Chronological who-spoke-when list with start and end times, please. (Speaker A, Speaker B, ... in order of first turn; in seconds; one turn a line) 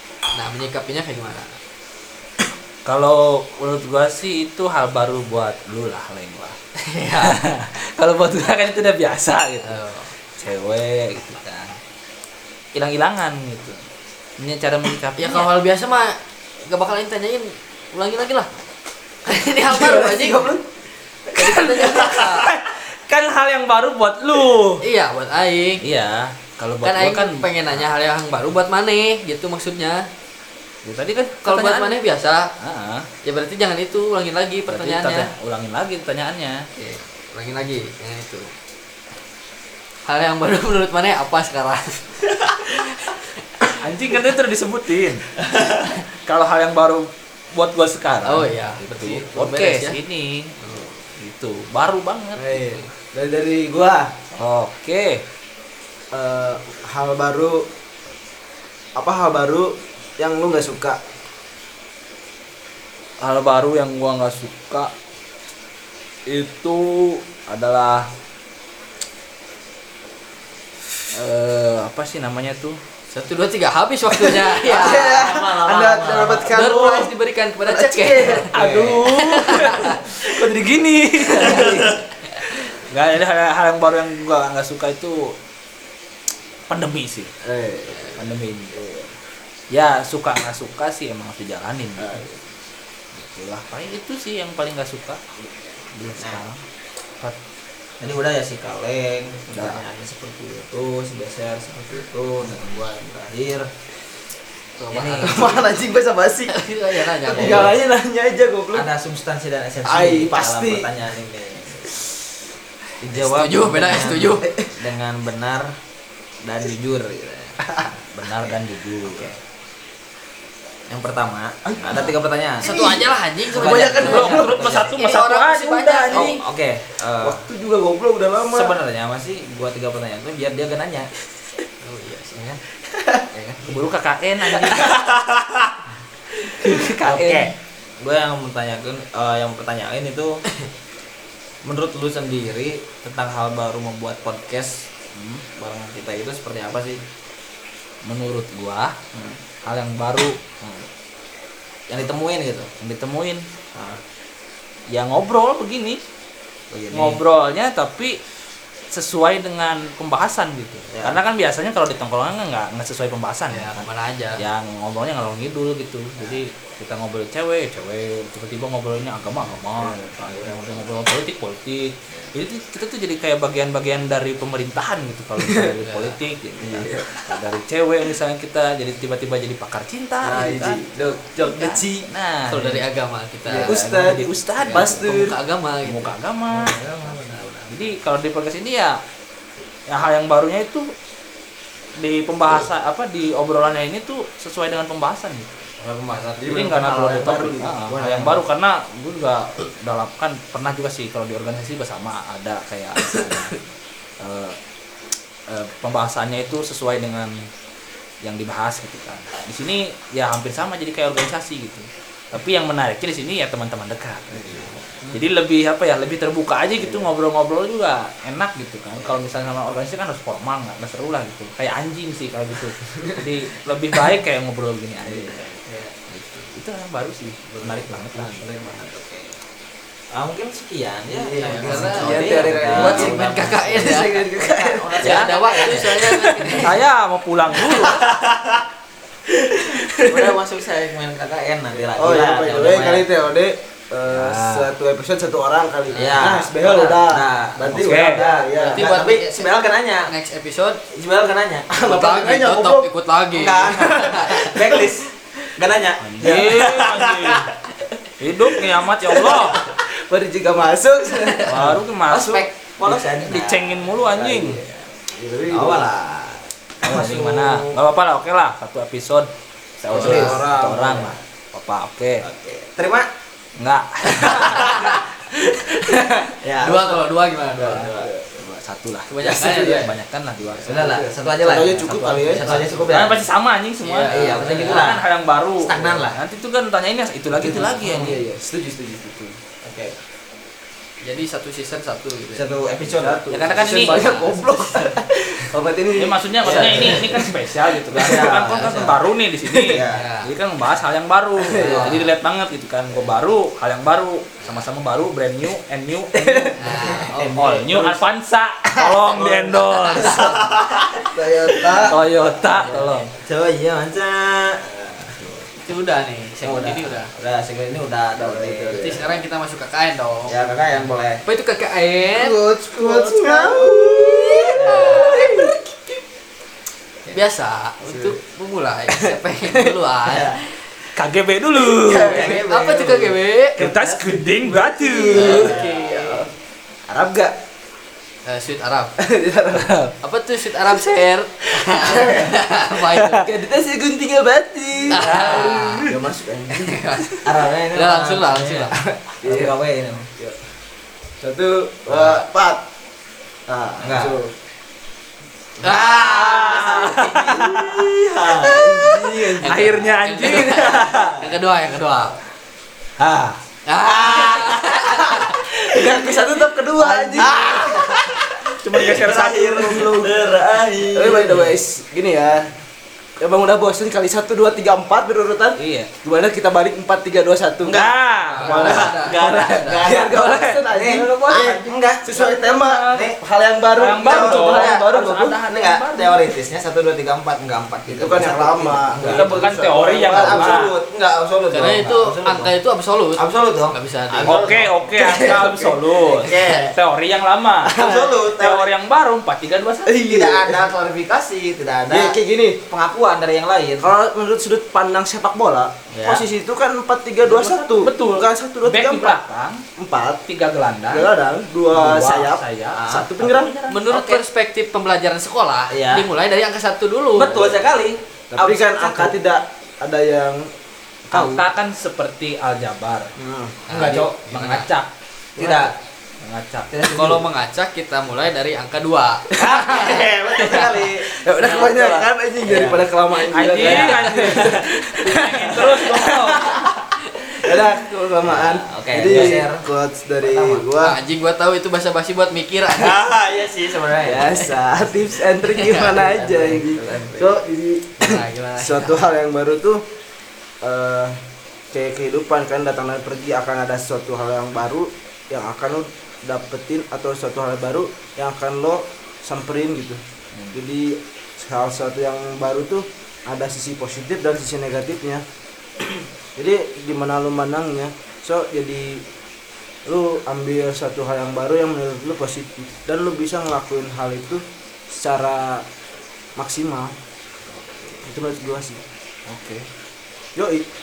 Speaker A: 0.3-1.6
Speaker B: 2.8-6.6
Speaker A: 6.8-7.4
Speaker B: 7.2-9.8
Speaker A: 9.6-10.1
Speaker B: 10.3-11.8
Speaker B: 12.7-13.8
Speaker B: 14.4-15.5
Speaker A: 15.2-18.5
Speaker A: 19.2-20.5
Speaker C: 19.7-20.6
Speaker A: 21.3-22.5
Speaker B: 21.4-24.8
Speaker A: 24.8-25.8
Speaker B: 25.8-27.8
Speaker A: 26.8-30.1
Speaker B: 30.8-32.0
Speaker A: 31.4-32.5
Speaker B: 32.6-33.1
Speaker A: 33.2-35.3
Speaker B: 34.7-36.6
Speaker A: 36.8-38.5
Speaker A: 40.0-43.2
Speaker B: 43.8-45.3
Speaker B: 45.9-50.5
Speaker A: 48.2-50.0
Speaker B: 51.2-52.8
Speaker C: 52.4-54.1
Speaker B: 54.3-55.2
Speaker C: 56.1-57.6
Speaker C: 59.0-61.0
Speaker B: 63.2-64.9
Speaker B: 66.3-68.1
Speaker B: 71.1-72.8
Speaker A: 73.1-75.3
Speaker C: 74.2-79.0
Speaker D: 74.7-76.5
Speaker A: 76.5-78.5
Speaker B: 78.5-85.3
Speaker A: 79.1-80.0
Speaker C: 81.3-81.9
Speaker B: 86.7-87.3
Speaker C: 87.4-88.2
Speaker B: 88.1-88.8
Speaker C: 88.7-89.1
Speaker B: 89.7-92.2
Speaker C: 92.0-92.4
Speaker B: 93.1-95.2
Speaker B: 95.9-96.6
Speaker D: 98.0-103.7
Speaker B: 99.5-99.8
Speaker A: 104.8-105.7
Speaker D: 104.9-105.6
Speaker C: 105.2-108.9
Speaker A: 106.5-107.8
Speaker D: 107.3-107.8
Speaker D: 108.7-112.0
Speaker C: 109.8-110.9
Speaker D: 113.0-115.7
Speaker A: 113.1-114.5
Speaker C: 114.4-114.7
Speaker D: 116.4-117.6
Speaker B: 118.1-119.3
Speaker D: 119.1-119.3
Speaker D: 120.9-124.9
Speaker C: 121.7-123.0
Speaker A: 122.6-126.4
Speaker B: 123.5-126.4
Speaker C: 123.6-124.7
Speaker D: 126.1-127.4
Speaker C: 127.2-128.8
Speaker D: 128.5-131.1
Speaker A: 131.8-132.6
Speaker D: 133.3-133.8
Speaker B: 133.6-134.9
Speaker D: 134.6-135.7
Speaker B: 136.6-137.5
Speaker D: 136.7-140.4
Speaker D: 141.6-144.9
Speaker B: 145.1-145.4
Speaker D: 145.5-147.0
Speaker B: 148.0-149.0
Speaker D: 149.1-149.4
Speaker B: 149.6-150.4
Speaker D: 150.6-150.8
Speaker D: 151.9-152.7
Speaker B: 152.8-153.4
Speaker D: 153.7-154.0
Speaker B: 154.9-156.0
Speaker D: 156.7-157.2
Speaker B: 156.9-158.2
Speaker B: 158.9-163.8
Speaker D: 160.9-161.2
Speaker A: 163.5-164.4
Speaker B: 164.4-180.7
Speaker C: 169.8-170.1
Speaker D: 169.8-170.8
Speaker C: 175.4-175.7
Speaker A: 175.8-176.2
Speaker C: 176.6-177.2
Speaker C: 180.2-182.1
Speaker D: 180.5-180.8
Speaker B: 181.4-182.8
Speaker A: 182.5-183.7
Speaker C: 183.5-185.3
Speaker B: 183.6-185.3
Speaker A: 184.7-186.1
Speaker B: 185.8-187.2
Speaker D: 186.5-187.9
Speaker B: 187.7-189.0
Speaker B: 189.9-190.9
Speaker B: 192.0-195.7
Speaker D: 195.8-196.9
Speaker C: 196.4-197.8
Speaker B: 196.4-203.5
Speaker D: 197.9-198.4
Speaker B: 204.2-204.6
Speaker B: 205.5-207.4
Speaker B: 208.2-225.5
Speaker D: 214.6-215.1
Speaker D: 219.0-219.2
Speaker D: 225.7-225.9
Speaker B: 226.1-228.5
Speaker D: 227.6-229.4
Speaker D: 230.1-236.6
Speaker C: 231.1-236.0
Speaker A: 231.3-234.1
Speaker B: 235.0-235.3
Speaker A: 235.0-236.8
Speaker B: 236.6-238.0
Speaker D: 237.6-238.6
Speaker C: 239.6-240.3
Speaker D: 240.0-243.1
Speaker C: 241.9-248.9
Speaker B: 244.1-244.7
Speaker D: 245.9-250.1
Speaker B: 247.7-248.2
Speaker A: 248.6-249.5
Speaker A: 250.1-250.8
Speaker D: 250.9-251.9
Speaker C: 251.7-252.9
Speaker A: 251.8-254.6
Speaker D: 253.3-257.5
Speaker C: 253.8-254.9
Speaker B: 256.0-257.5
Speaker B: 258.2-259.6
Speaker C: 259.1-261.7
Speaker B: 261.4-264.6
Speaker D: 261.4-264.8
Speaker C: 265.1-265.9
Speaker D: 265.5-267.8
Speaker B: 266.8-272.2
Speaker A: 269.9-270.3
Speaker D: 269.9-270.4
Speaker C: 269.9-271.1
Speaker D: 272.2-273.1
Speaker B: 273.6-274.8
Speaker D: 274.2-275.0
Speaker A: 274.2-275.0
Speaker A: 275.7-277.9
Speaker D: 276.4-278.1
Speaker C: 277.7-278.3
Speaker B: 278.3-280.9
Speaker A: 279.1-279.9
Speaker D: 279.2-279.7
Speaker A: 280.6-280.9
Speaker D: 280.6-283.2
Speaker C: 280.7-282.7
Speaker B: 281.6-288.2
Speaker A: 282.2-282.9
Speaker A: 283.8-284.8
Speaker D: 284.1-285.0
Speaker D: 285.6-286.2
Speaker C: 287.3-289.4
Speaker D: 287.8-288.2
Speaker D: 289.6-290.0
Speaker A: 291.0-292.9
Speaker D: 292.3-293.8
Speaker C: 292.9-298.5
Speaker B: 293.3-294.2
Speaker A: 293.6-294.9
Speaker B: 295.9-306.7
Speaker D: 296.4-297.3
Speaker D: 297.9-299.0
Speaker C: 299.4-299.8
Speaker D: 299.6-300.1
Speaker A: 299.9-300.3
Speaker C: 301.4-301.9
Speaker D: 301.6-302.1
Speaker C: 306.1-306.6
Speaker A: 306.6-307.3
Speaker D: 306.8-308.0
Speaker B: 307.3-310.4
Speaker D: 309.1-311.9
Speaker A: 310.1-310.3
Speaker C: 311.0-312.0
Speaker B: 311.9-313.1
Speaker D: 312.6-315.5
Speaker A: 315.6-317.1
Speaker D: 316.4-319.1
Speaker C: 318.2-319.1
Speaker A: 318.8-320.4
Speaker D: 320.3-321.2
Speaker A: 321.2-322.4
Speaker D: 322.1-325.5
Speaker C: 322.6-325.6
Speaker A: 324.5-325.5
Speaker A: 327.1-330.6
Speaker C: 327.8-328.1
Speaker C: 328.9-329.6
Speaker D: 330.1-330.4
Speaker B: 330.9-332.3
Speaker C: 331.6-333.1
Speaker D: 331.9-333.1
Speaker A: 332.1-333.6
Speaker B: 333.6-335.5
Speaker D: 333.6-334.2
Speaker C: 334.2-336.3
Speaker A: 335.1-336.3
Speaker D: 335.1-335.7
Speaker C: 336.9-337.3
Speaker A: 338.2-338.9
Speaker C: 339.0-339.7
Speaker B: 339.5-339.9
Speaker A: 340.0-343.3
Speaker C: 341.7-342.4
Speaker B: 343.0-343.3
Speaker C: 343.2-347.0
Speaker A: 344.9-345.9
Speaker B: 345.0-345.8
Speaker A: 346.6-348.8
Speaker D: 347.2-348.7
Speaker C: 348.9-349.5
Speaker D: 349.2-350.1
Speaker C: 351.2-352.6
Speaker C: 353.5-354.3
Speaker D: 353.8-354.1
Speaker A: 355.6-357.1
Speaker D: 355.6-358.9
Speaker B: 356.1-357.9
Speaker C: 358.2-359.8
Speaker B: 358.6-361.3
Speaker A: 359.5-362.2
Speaker B: 363.0-363.4
Speaker A: 363.6-365.4
Speaker D: 363.8-365.1
Speaker C: 365.6-368.1
Speaker D: 366.8-368.2
Speaker B: 367.2-367.8
Speaker B: 368.6-370.1
Speaker D: 368.7-371.5
Speaker C: 369.7-370.0
Speaker C: 370.9-372.5
Speaker C: 373.2-377.8
Speaker B: 375.6-375.9
Speaker D: 377.6-383.2
Speaker B: 377.7-380.1
Speaker A: 378.3-379.9
Speaker C: 379.8-385.2
Speaker B: 382.6-383.1
Speaker B: 383.8-386.3
Speaker D: 383.8-392.5
Speaker C: 387.9-390.7
Speaker B: 389.0-390.7
Speaker A: 391.5-394.6
Speaker D: 393.2-395.4
Speaker B: 394.2-397.8
Speaker C: 394.9-396.3
Speaker D: 396.0-396.7
Speaker C: 397.6-398.3
Speaker D: 397.8-398.7
Speaker B: 398.4-400.0
Speaker C: 399.9-400.7
Speaker D: 400.0-402.1
Speaker C: 401.9-402.6
Speaker D: 402.7-403.8
Speaker C: 403.8-409.2
Speaker D: 405.9-406.2
Speaker B: 407.2-409.6
Speaker C: 409.8-410.2
Speaker B: 410.2-411.1
Speaker C: 410.9-413.6
Speaker B: 411.7-413.8
Speaker D: 412.7-413.1
Speaker A: 413.7-417.5
Speaker D: 413.9-414.2
Speaker D: 415.7-416.1
Speaker D: 417.1-419.1
Speaker C: 418.3-420.5
Speaker C: 421.1-421.4
Speaker B: 421.1-423.1
Speaker C: 423.2-423.6
Speaker A: 423.7-424.7
Speaker D: 423.7-424.2
Speaker B: 423.7-426.7
Speaker D: 425.4-425.7
Speaker D: 426.7-427.2
Speaker A: 426.9-430.8
Speaker C: 429.3-429.6
Speaker D: 429.4-432.9
Speaker C: 430.4-436.6
Speaker B: 433.3-436.6
Speaker D: 433.6-434.5
Speaker C: 437.4-441.0
Speaker D: 438.2-439.7
Speaker B: 439.1-439.4
Speaker D: 440.2-440.6
Speaker A: 440.8-443.1
Speaker D: 442.7-444.4
Speaker C: 444.0-449.8
Speaker A: 445.2-445.9
Speaker D: 445.8-447.4
Speaker A: 448.0-449.1
Speaker C: 450.6-451.2
Speaker C: 451.7-460.0
Speaker C: 460.5-465.2
Speaker C: 466.4-469.0
Speaker C: 469.9-475.6
Speaker C: 476.4-476.9
Speaker C: 478.0-478.8
Speaker B: 479.3-479.6
Speaker C: 480.4-480.6